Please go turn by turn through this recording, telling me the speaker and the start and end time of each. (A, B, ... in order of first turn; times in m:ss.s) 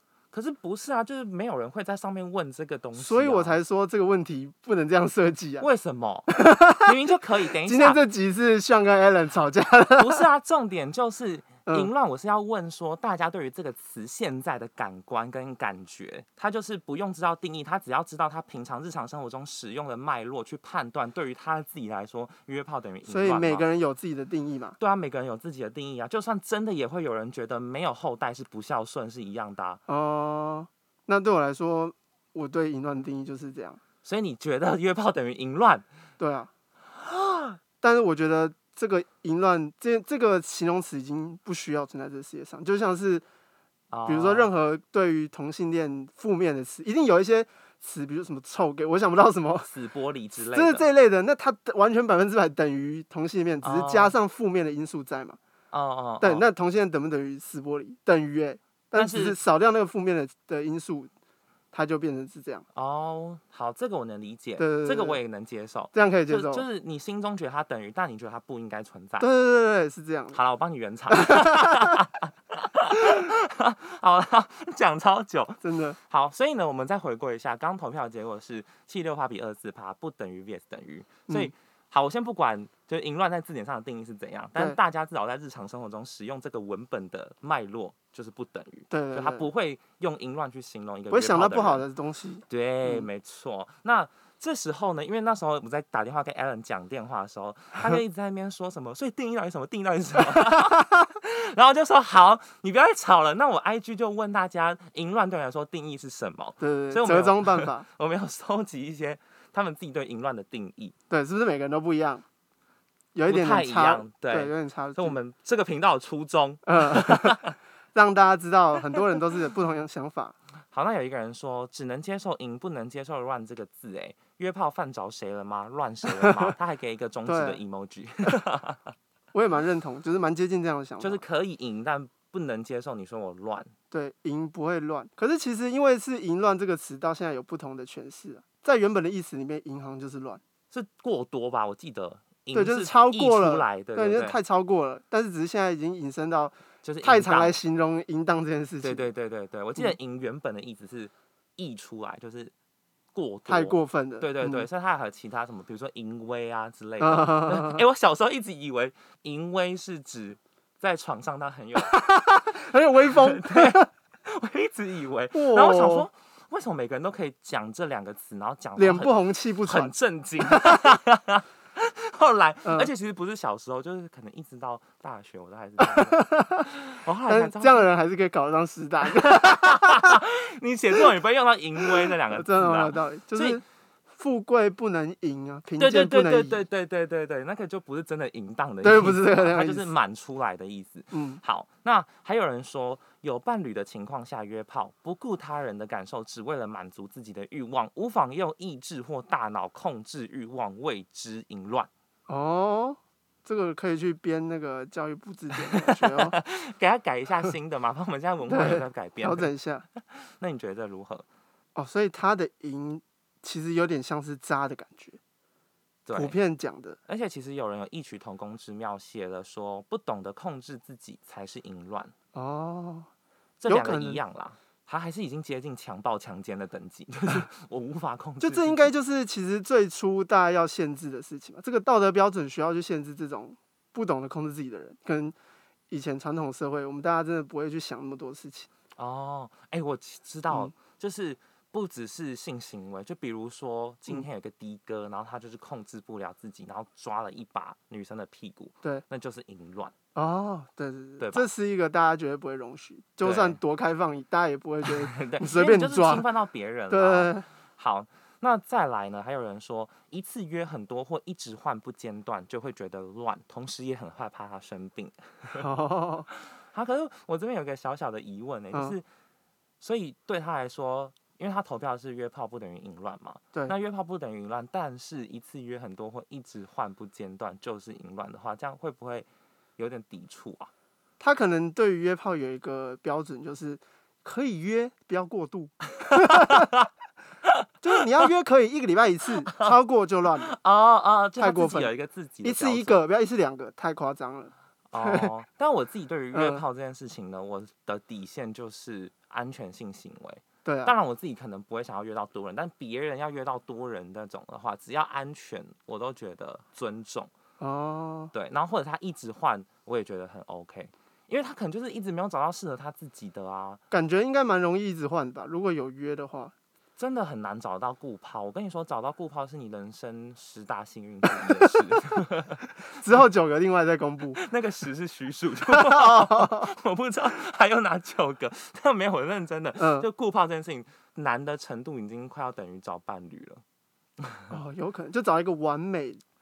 0:00.3-0:03.6 A
0:03.0-0:05.7 B
0:05.6-0:08.0 A
0:06.3-0:06.9 B
0:07.6-0:10.2 B
0:10.0-0:23.7 A
0:23.1-0:24.8 B
0:24.8-0:29.8 A
0:29.9-0:33.8 B
0:34.0-0:35.9 A
0:36.2-0:36.5 B
0:37.0-0:37.6 A
0:37.8-0:43.2 B
0:43.9-0:44.5 A
0:44.1-0:49.7 B
0:49.6-0:50.9 A
0:50.5-0:55.4 B
0:53.6-0:54.1 A
0:55.7-0:56.5 A
0:56.2-1:01.1 B
0:59.0-0:59.4 A
1:01.7-1:02.6 B
1:02.7-1:09.3 A
1:04.6-1:05.2 B
1:05.9-1:06.6 B
1:09.2-1:10.4 B
1:10.3-1:31.8 A
1:11.1-1:12.0 B
1:15.6-1:16.0 B
1:28.9-1:29.5 B
1:31.1-1:33.1 B
1:32.5-1:51.0 A
1:46.6-1:47.8 B
1:51.1-1:52.2 B
1:53.2-1:55.2 B
1:53.3-1:57.6 A
1:56.7-1:57.4 B
1:57.9-2:00.4 B
2:00.7-2:08.9 A
2:06.2-2:06.5 B
2:07.3-2:07.6 B
2:09.3-2:11.2 B
2:11.0-2:13.7 A
2:13.9-2:20.4 B
2:20.7-2:24.4 A
2:22.5-2:29.1 B
2:26.8-2:27.6 A
2:28.8-2:32.5 A
2:33.1-2:42.0 A
2:33.5-2:34.7 B
2:37.0-2:37.8 B
2:41.8-2:43.9 B
2:43.1-2:49.1 A
2:45.3-2:46.1 B
2:48.8-2:49.9 B
2:49.6-2:57.9 A
2:50.5-2:50.8 B
2:52.6-2:52.9 B
2:55.8-2:56.7 B
2:57.3-3:00.2 B
2:59.1-3:03.6 A
3:01.9-3:03.6 B
3:04.1-3:06.6 B
3:05.8-3:21.9 A
3:08.8-3:09.9 B
3:11.1-3:11.4 B
3:22.3-3:26.4 B
3:25.6-3:29.5 A
3:28.5-3:29.8 B
3:30.1-3:31.3 A
3:31.8-3:35.2 B
3:36.1-3:36.4 A
3:36.2-3:37.0 B
3:37.1-3:42.1 A
3:42.3-3:43.1 B
3:43.6-3:48.9 A
3:43.7-3:44.2 B
3:48.4-3:55.4 B
3:55.9-3:58.7 B
3:59.0-4:09.9 A
4:10.2-4:16.2 B
4:11.2-4:11.5 A
4:13.2-4:13.6 A
4:14.8-4:25.6 A
4:16.9-4:17.5 B
4:25.5-4:26.3 B
4:26.5-4:29.0 A
4:29.8-4:40.7 A
4:41.2-4:46.7 B
4:46.0-4:46.9 A
4:47.8-4:50.5 B
4:49.5-4:49.7 A
4:50.4-4:53.0 A
4:51.4-4:51.9 B
4:52.4-4:55.3 B
4:54.9-5:07.3 A
4:56.3-4:56.6 B
5:00.6-5:00.9 B
5:07.6-5:08.3 B
5:08.3-5:13.8 A
5:13.9-5:16.5 B
5:17.0-5:22.6 A
5:21.4-5:21.7 B
5:23.0-5:24.4 B
5:24.4-5:33.6 A
5:25.7-5:26.7 B
5:29.8-5:30.1 B
5:34.2-5:34.5 A
5:34.5-5:36.2 B